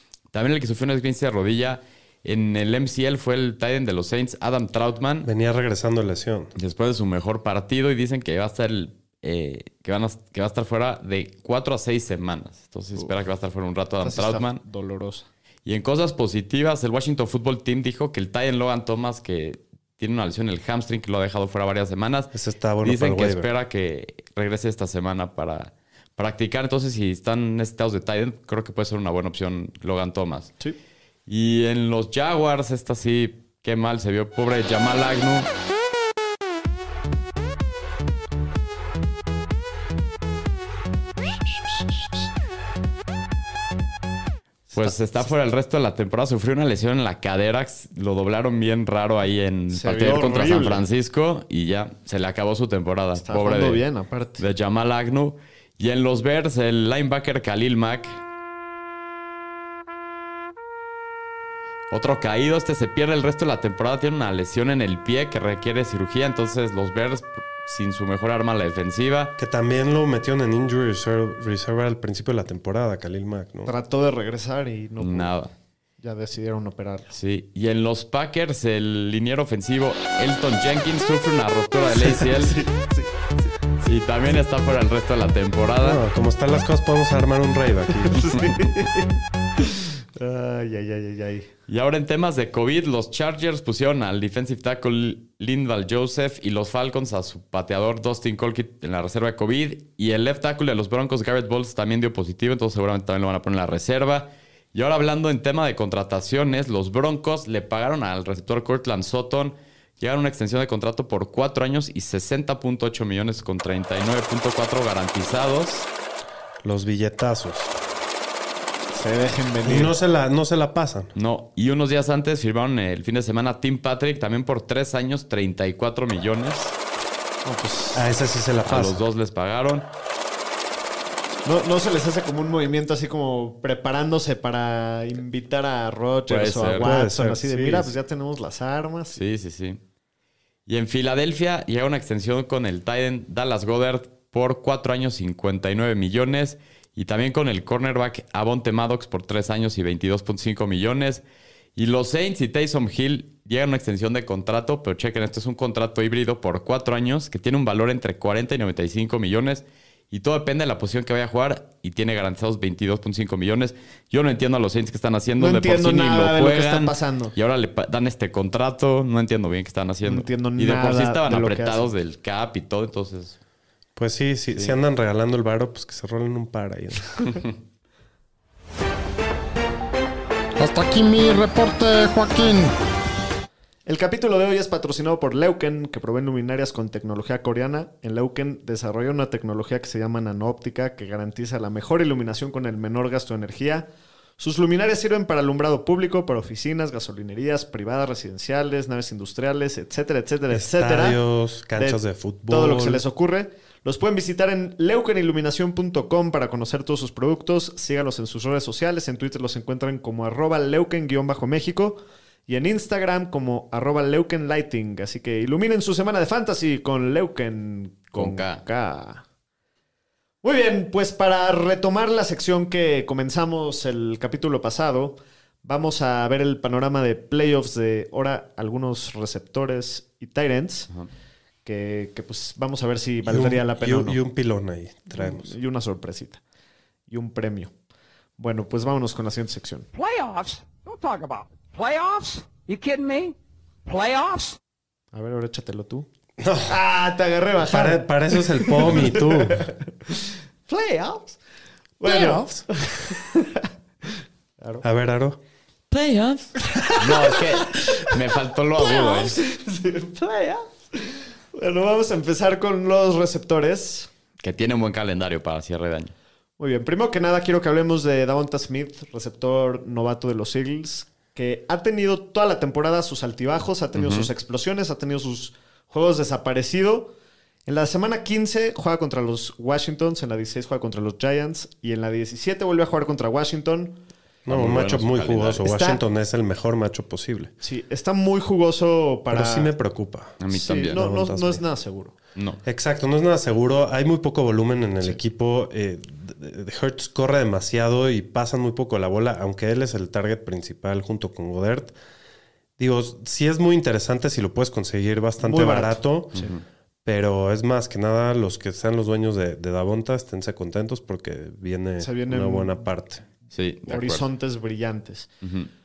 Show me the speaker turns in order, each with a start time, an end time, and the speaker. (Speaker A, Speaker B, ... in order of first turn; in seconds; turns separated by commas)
Speaker A: 0.3-5.3, Speaker B: 5.2-6.5, Speaker A: 6.5-14.6, Speaker C: 14.0-15.3, Speaker A: 15.6-30.5, Speaker B: 22.3-23.5, Speaker A: 31.3-35.5, Speaker C: 44.7-45.3, Speaker A: 44.8-53.8, Speaker C: 49.7-50.8, Speaker C: 53.2-54.4, Speaker A: 54.4-58.2, Speaker A: 61.9-69.3, Speaker B: 69.4-73.7, Speaker C: 73.7-75.3, Speaker A: 75.0-75.5, Speaker C: 76.0-77.1, Speaker A: 77.1-82.6, Speaker C: 82.2-83.1, Speaker A: 83.8-86.0, Speaker B: 85.8-88.4, Speaker C: 88.0-91.5, Speaker A: 91.7-115.9, Speaker B: 116.6-117.7, Speaker C: 118.9-119.9, Speaker B: 119.6-121.1, Speaker A: 121.2-126.8, Speaker C: 127.5-128.0, Speaker B: 127.9-129.0, Speaker A: 128.6-129.9, Speaker C: 131.4-139.2, Speaker A: 136.3-136.9, Speaker B: 136.8-137.9, Speaker A: 139.1-139.8, Speaker A: 140.7-151.2, Speaker A: 151.8-173.4, Speaker C: 165.4-167.3, Speaker C: 170.0-171.9, Speaker B: 174.0-177.4, Speaker D: 180.6-182.8, Speaker C: 183.9-201.2, Speaker B: 200.5-203.0, Speaker C: 201.8-219.2, Speaker A: 218.1-218.6, Speaker C: 220.4-230.9, Speaker C: 231.6-234.2, Speaker B: 233.3-235.5, Speaker C: 235.1-236.4, Speaker C: 237.1-237.7, Speaker C: 238.4-239.9, Speaker E: 239.9-243.3, Speaker E: 243.9-244.6, Speaker C: 245.1-246.1, Speaker B: 246.4-246.8, Speaker C: 246.6-251.4, Speaker B: 247.6-249.7, Speaker C: 252.0-254.8, Speaker E: 252.0-252.5, Speaker B: 254.8-255.4, Speaker A: 255.9-259.4, Speaker C: 256.7-258.1, Speaker C: 258.8-264.1, Speaker A: 264.4-266.1, Speaker C: 266.6-277.1, Speaker A: 273.9-274.3, Speaker C: 277.6-284.0, Speaker B: 284.4-287.5, Speaker A: 284.5-285.6, Speaker C: 285.6-286.0, Speaker C: 287.6-289.7, Speaker B: 289.3-291.6, Speaker A: 290.4-291.0, Speaker C: 290.5-292.1, Speaker B: 292.6-301.9, Speaker B: 302.8-306.4, Speaker C: 305.4-306.5, Speaker A: 306.4-306.6, Speaker B: 307.0-313.2, Speaker C: 312.0-312.7, Speaker A: 313.5-314.2, Speaker C: 313.9-315.3, Speaker A: 315.4-315.7